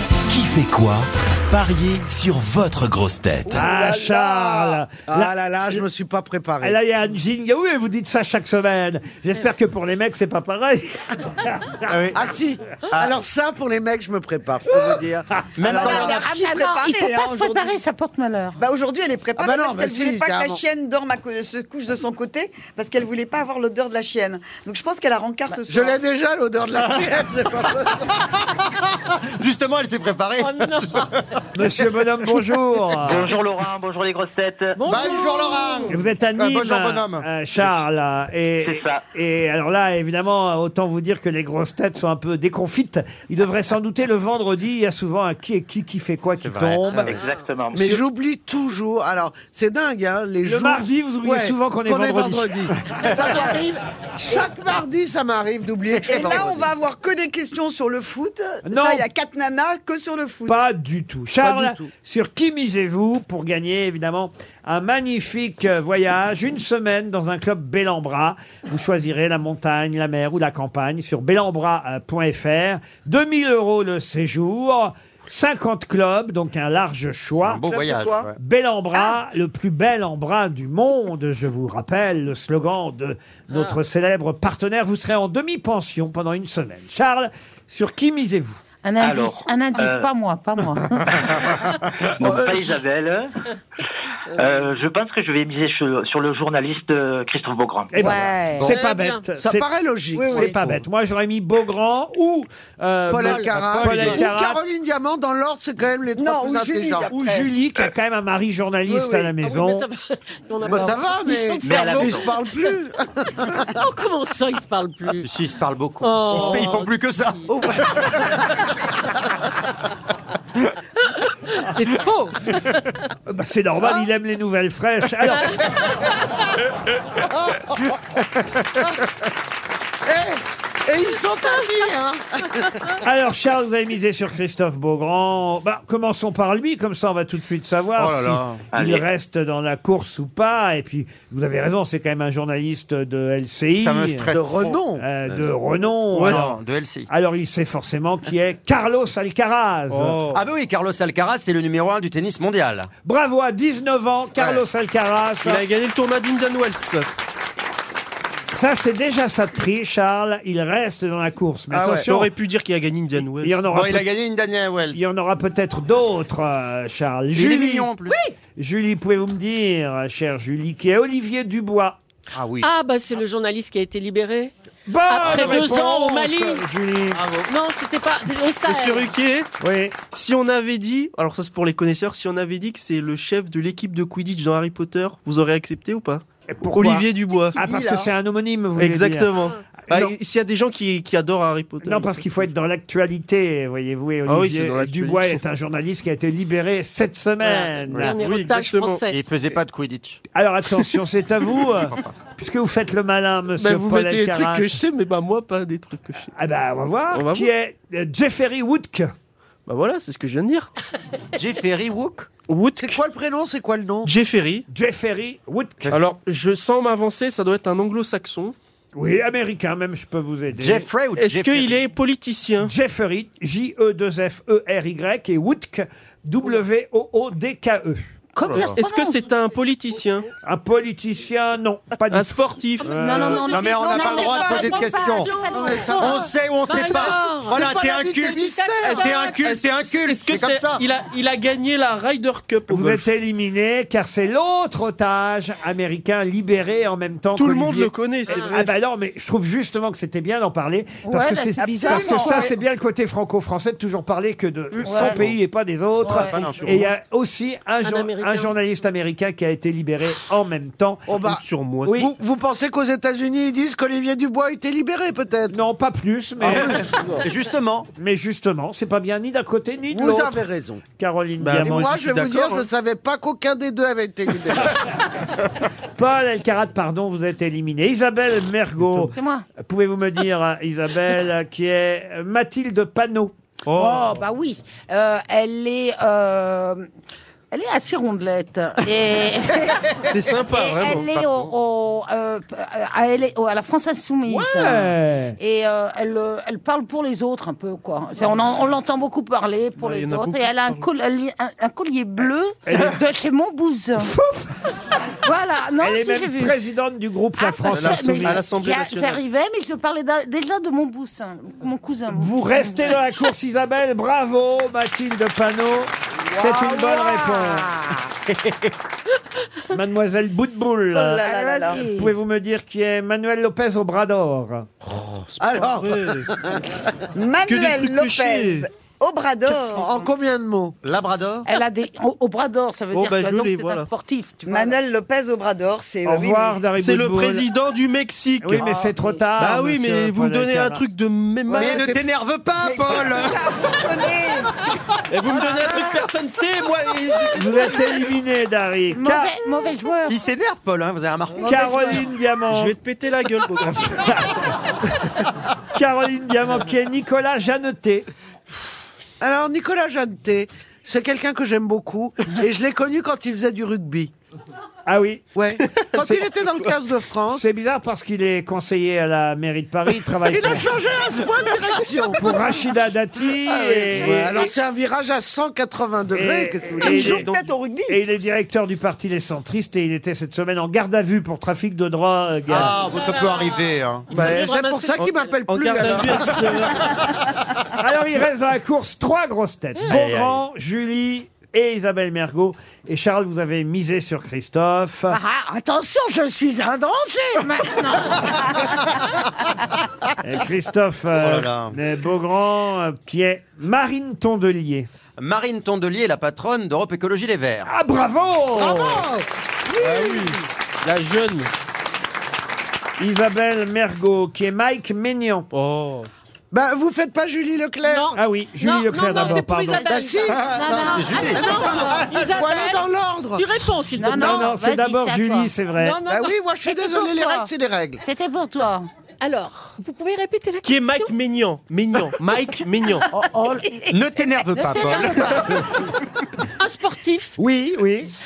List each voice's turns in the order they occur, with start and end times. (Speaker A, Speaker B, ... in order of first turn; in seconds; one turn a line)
Speaker A: 0.3-1.0
Speaker A: 1.6-3.4
Speaker B: 3.4-6.8
Speaker C: 3.5-5.8
Speaker C: 6.6-11.9
Speaker D: 11.9-12.2
Speaker B: 12.1-16.3
Speaker D: 15.6-16.1
Speaker E: 15.7-17.8
Speaker F: 15.8-18.6
Speaker E: 18.6-26.0
Speaker B: 19.4-20.6
Speaker B: 25.6-28.1
Speaker D: 28.9-31.8
Speaker G: 30.4-31.1
Speaker C: 31.5-33.3
Speaker H: 33.0-34.9
Speaker G: 34.8-36.0
Speaker D: 34.9-37.7
Speaker C: 35.9-47.1
Speaker H: 38.6-39.0
Speaker D: 46.4-47.2
Speaker H: 46.9-48.0
Speaker B: 47.7-56.4
Speaker C: 50.4-52.5
Speaker D: 55.9-56.7
Speaker E: 56.0-60.6
Speaker C: 58.6-59.1
Speaker C: 60.5-77.7
Speaker B: 61.4-61.9
Speaker D: 77.3-78.3
Speaker B: 77.7-78.3
Speaker C: 78.3-88.6
Speaker F: 88.8-91.1
Speaker H: 89.0-90.1
Speaker H: 91.1-93.3
Speaker B: 92.2-92.8
Speaker H: 94.3-98.1
Speaker C: 97.9-99.7
Speaker F: 98.0-98.7
Speaker G: 98.6-99.2
Speaker B: 99.4-100.5
Speaker E: 100.1-100.6
Speaker C: 100.3-104.6
Speaker B: 103.1-107.1
Speaker E: 103.8-104.2
Speaker E: 106.2-107.5
Speaker C: 107.1-109.9
Speaker B: 108.9-109.3
Speaker G: 109.4-112.5
Speaker B: 110.6-113.7
Speaker H: 111.6-112.3
Speaker G: 113.4-115.3
Speaker D: 115.2-118.3
Speaker G: 116.0-117.5
Speaker B: 116.3-116.7
Speaker B: 117.5-118.6
Speaker G: 121.2-122.9
Speaker C: 123.3-125.8
Speaker B: 130.1-132.8
Speaker C: 133.0-144.3
Speaker D: 137.9-138.6
Speaker H: 138.7-139.0
Speaker D: 143.8-145.5
Speaker B: 144.3-145.1
Speaker C: 145.0-146.6
Speaker I: 146.1-146.4
Speaker D: 146.2-147.1
Speaker C: 147.1-150.2
Speaker I: 149.9-150.4
Speaker D: 150.3-152.9
Speaker C: 153.0-155.6
Speaker D: 154.3-154.6
Speaker I: 155.4-157.1
Speaker C: 158.5-162.3
Speaker B: 161.7-162.1
Speaker I: 161.8-163.7
Speaker C: 163.2-164.1
Speaker D: 163.7-165.1
Speaker C: 164.9-167.9
Speaker D: 167.3-168.2
Speaker G: 168.0-168.3
Speaker C: 168.6-172.0
Speaker D: 172.3-172.7
Speaker G: 172.6-174.5
Speaker C: 174.9-177.3
Speaker G: 175.1-176.7
Speaker D: 175.2-175.7
Speaker D: 177.1-177.5
Speaker G: 177.5-179.1
Speaker I: 178.6-179.5
Speaker C: 179.6-180.0
Speaker I: 180.1-187.6
Speaker C: 186.5-189.3
Speaker E: 187.4-188.1
Speaker I: 188.8-192.2
Speaker C: 189.8-190.1
Speaker C: 191.8-198.4
Speaker I: 194.2-195.4
Speaker G: 197.4-199.2
Speaker I: 198.1-199.1
Speaker D: 199.1-200.2
Speaker C: 200.3-204.7
Speaker I: 203.6-206.3
Speaker C: 206.3-209.1
Speaker I: 207.1-207.5
Speaker I: 209.7-210.7
Speaker D: 211.3-212.3
Speaker I: 212.5-213.0
Speaker B: 212.8-214.1
Speaker I: 214.0-214.6
Speaker C: 214.7-216.0
Speaker I: 215.9-218.5
Speaker C: 218.9-220.9
Speaker D: 220.6-221.8
Speaker I: 221.1-222.7
Speaker C: 222.6-228.0
Speaker F: 228.3-229.2
Speaker D: 228.5-228.8
Speaker I: 228.5-230.3
Speaker C: 230.4-233.6
Speaker I: 232.1-233.0
Speaker F: 232.9-236.3
Speaker G: 233.2-237.7
Speaker D: 233.5-235.4
Speaker E: 233.7-234.8
Speaker B: 235.4-236.3
Speaker D: 235.9-238.4
Speaker B: 236.9-239.1
Speaker G: 238.3-239.5
Speaker I: 238.8-243.1
Speaker D: 239.0-240.8
Speaker C: 242.7-261.1
Speaker I: 247.3-248.7
Speaker G: 248.3-248.6
Speaker F: 251.0-252.5
Speaker B: 251.8-252.5
Speaker F: 254.8-255.2
Speaker D: 254.9-255.4
Speaker F: 256.0-256.4
Speaker D: 256.2-256.9
Speaker G: 257.8-258.5
Speaker B: 261.1-265.6
Speaker I: 261.2-262.0
Speaker C: 261.9-262.1
Speaker C: 265.5-266.8
Speaker D: 266.4-267.9
Speaker C: 267.9-270.4
Speaker B: 269.9-270.8
Speaker C: 271.0-272.7
Speaker I: 271.4-271.8
Speaker B: 271.6-274.8
Speaker C: 275.9-283.3
Speaker I: 278.8-279.1
Speaker F: 279.1-279.4
Speaker I: 283.6-284.1
Speaker F: 283.7-286.9
Speaker F: 287.5-304.1
Speaker I: 290.1-291.1
Speaker D: 291.1-291.5
Speaker C: 294.2-295.4
Speaker I: 299.8-300.8
Speaker C: 302.7-303.0
Speaker C: 304.0-304.5
Speaker F: 305.1-306.6
Speaker C: 305.8-308.4
Speaker F: 307.4-313.0
Speaker I: 307.7-309.2
Speaker C: 312.1-317.7
Speaker F: 316.3-318.1
Speaker C: 319.7-324.7
Speaker E: 320.9-321.8
Speaker F: 321.2-322.1
Speaker I: 324.8-326.3
Speaker B: 325.4-326.8
Speaker E: 327.1-330.0
Speaker I: 327.4-328.7
Speaker B: 329.5-330.8
Speaker D: 330.8-331.4
Speaker F: 331.4-334.8
Speaker I: 332.9-333.9
Speaker E: 334.4-336.6
Speaker C: 336.1-337.5
Speaker I: 336.8-338.7
Speaker C: 338.4-340.9
Speaker F: 338.6-339.2
Speaker I: 339.4-342.1
Speaker D: 341.5-343.4
Speaker E: 342.6-344.5
Speaker I: 345.1-347.7
Speaker F: 345.3-345.9
Speaker C: 347.3-349.3
Speaker F: 348.9-350.2
Speaker D: 350.1-351.6
Speaker C: 351.4-352.8
Speaker B: 351.6-352.0
Speaker I: 352.5-354.2
Speaker C: 354.0-358.1
Speaker B: 359.2-364.1
Speaker C: 364.9-365.4
Speaker B: 365.3-367.4
Speaker C: 366.0-366.3
Speaker C: 367.3-370.7
Speaker B: 370.2-372.5
Speaker C: 372.1-374.5
Speaker B: 373.4-377.2
Speaker C: 376.1-377.3
Speaker E: 376.8-378.0
Speaker C: 377.9-382.8
Speaker D: 382.5-384.2
Speaker G: 382.9-385.4
Speaker B: 384.1-386.9
Speaker I: 385.0-386.9
Speaker D: 385.5-386.1
Speaker E: 386.3-386.7
Speaker C: 387.7-395.2
Speaker D: 389.9-390.4
Speaker F: 395.1-398.8
Speaker C: 400.2-404.9
Speaker D: 401.1-401.8
Speaker D: 405.2-407.7
Speaker C: 407.6-409.1
Speaker B: 408.5-410.4
Speaker I: 409.8-411.5
Speaker C: 413.0-415.5
Speaker I: 415.5-416.1
Speaker B: 416.5-418.1
Speaker G: 417.8-420.3
Speaker C: 418.1-420.0
Speaker F: 419.1-419.4
Speaker B: 419.7-420.4
Speaker F: 420.2-422.1
Speaker D: 420.3-421.4
Speaker G: 420.9-424.1
Speaker B: 421.3-423.5
Speaker F: 423.9-425.5
Speaker B: 424.1-424.5
Speaker C: 424.1-426.0
Speaker G: 425.8-426.3
Speaker B: 426.1-428.0
Speaker F: 426.6-427.5
Speaker F: 428.0-428.9
Speaker G: 429.2-431.1
Speaker I: 430.6-433.1
Speaker F: 433.1-435.7
Speaker D: 433.9-435.7
Speaker G: 436.6-437.3
Speaker C: 437.4-438.1